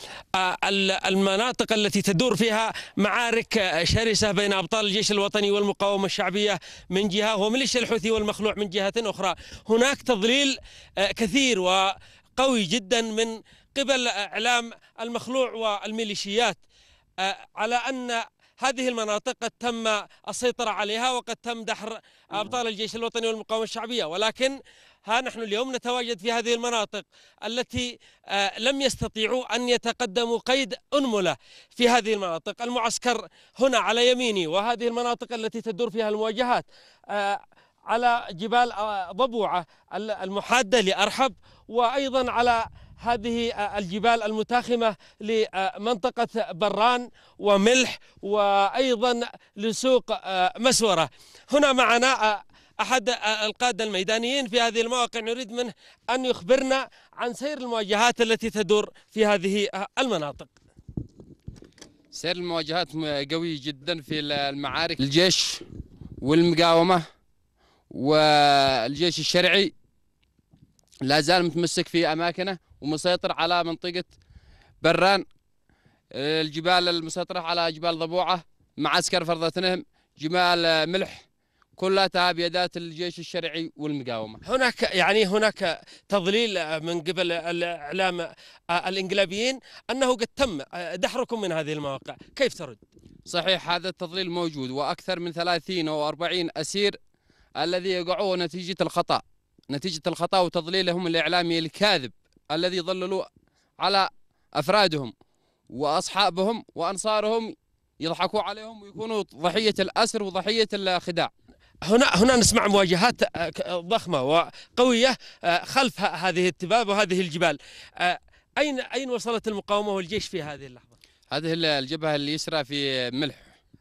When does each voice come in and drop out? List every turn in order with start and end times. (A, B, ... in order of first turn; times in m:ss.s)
0:00.3-0:16.6 A
0:17.2-1:00.5 A
1:02.1-1:05.6 B
1:06.2-1:07.0 B
1:07.9-1:09.7 B
1:11.0-1:14.1 B
1:14.8-1:15.2 B
1:16.1-1:21.2 B
1:21.8-1:24.4 B
1:24.4-1:32.8 A
1:33.2-1:37.0 B
1:37.6-1:43.3 B
1:43.8-1:45.1 B
1:45.7-1:51.3 B
1:51.8-2:01.0 A
2:01.3-2:03.5 B